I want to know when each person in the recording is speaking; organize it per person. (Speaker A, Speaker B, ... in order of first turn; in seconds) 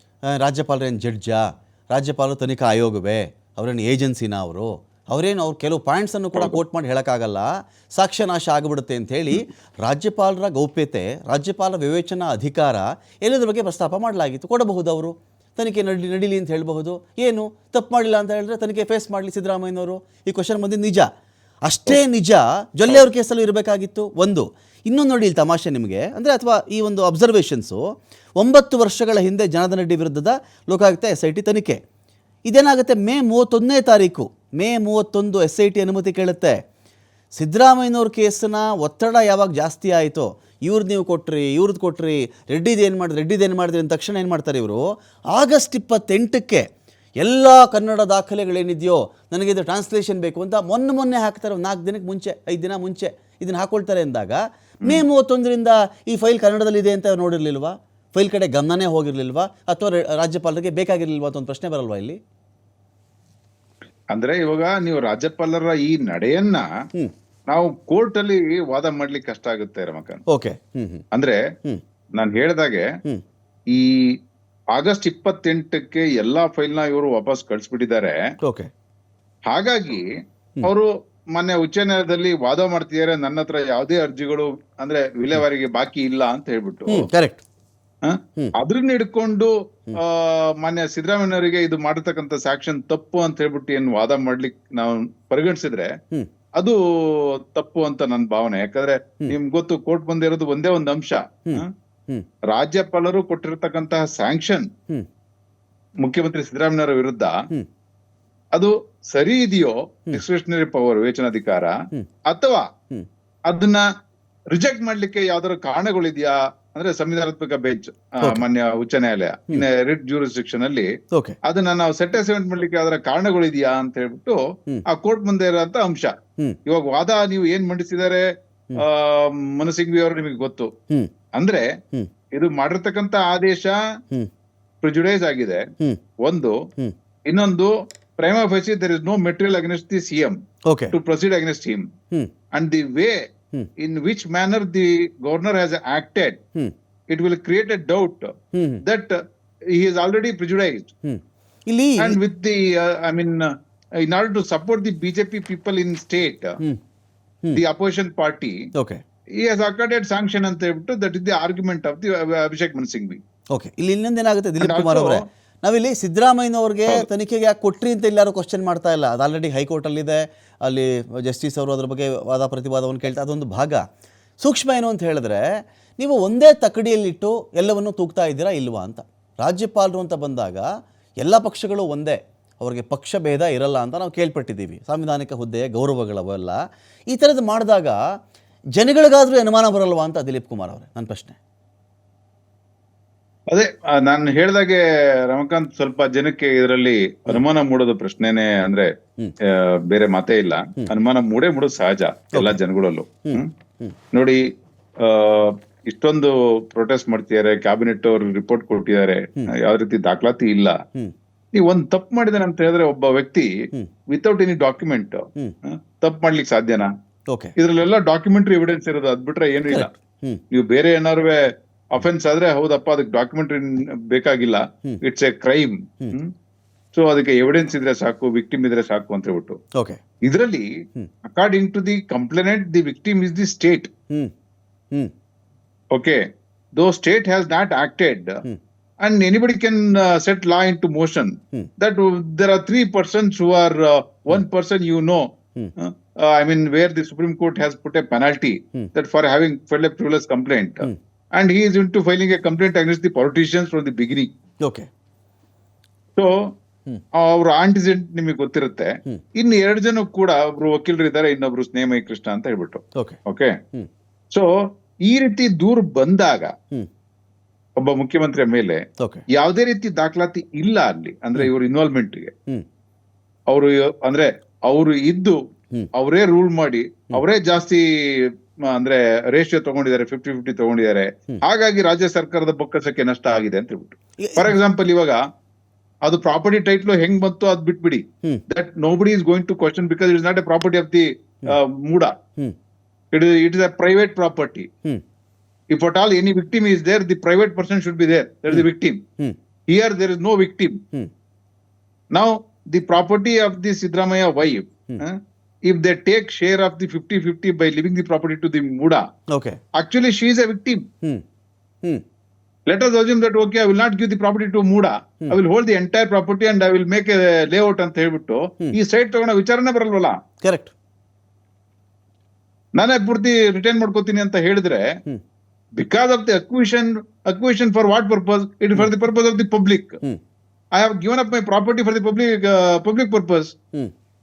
Speaker A: 0.3-21.1, 21.6-27.8, 28.4-31.8, 32.5-36.6, 37.3-46.7, 47.2-62.2, 70.3-71.0, 78.4-78.7, 86.9-87.4, 101.5-102.3, 121.1-121.4, 140.7-140.9, 148.5-148.8, 151.0-152.2, 158.8-159.0, 163.5-173.8, 174.4-175.4, 176.0-180.7, 181.2-186.6, 187.1-188.0, 188.8-191.4, 202.3-202.6, 203.2-203.9, 217.3-217.6, 219.7-220.4, 229.8-230.0, 284.2-284.5, 309.3-309.6, 320.4-320.7
Speaker B: 64.1-66.7, 67.5-70.2, 71.1-71.4, 72.2-72.9, 73.7-74.1, 74.8-78.2, 79.5-80.1, 80.6-87.1, 88.0-95.9, 96.6-101.7, 102.5-104.7, 106.0-107.4, 108.5-111.8, 112.3-112.7, 113.5-113.8, 114.5-120.9, 121.4-126.1, 126.7-130.7, 131.3-131.7, 132.3-133.8, 134.8-135.7, 136.2-136.6, 137.3-140.4, 140.9-141.9, 142.5-143.2, 143.8-146.4, 147.1-148.3, 148.8-149.2, 149.7-150.9, 152.0-153.5, 154.0-156.6, 157.5-158.6, 159.4-163.2, 164.6-165.2, 193.5-198.9, 199.4-203.5, 204.1-204.4, 205.0-210.8, 211.6-213.5, 214.1-216.9, 217.6-219.9, 220.5-226.3, 226.9-229.6, 230.2-230.7, 231.3-233.9, 235.9-236.2, 236.8-238.4, 239.0-254.3, 256.2-256.5, 257.1-263.6, 264.3-266.5, 267.8-272.3, 273.5-275.4, 275.9-285.2, 286.0-292.1, 293.1-294.7, 295.7-299.0, 299.7-300.8, 302.1-309.0, 309.8-310.9, 312.7-320.2, 322.8-324.9, 325.8-330.0, 330.7-333.5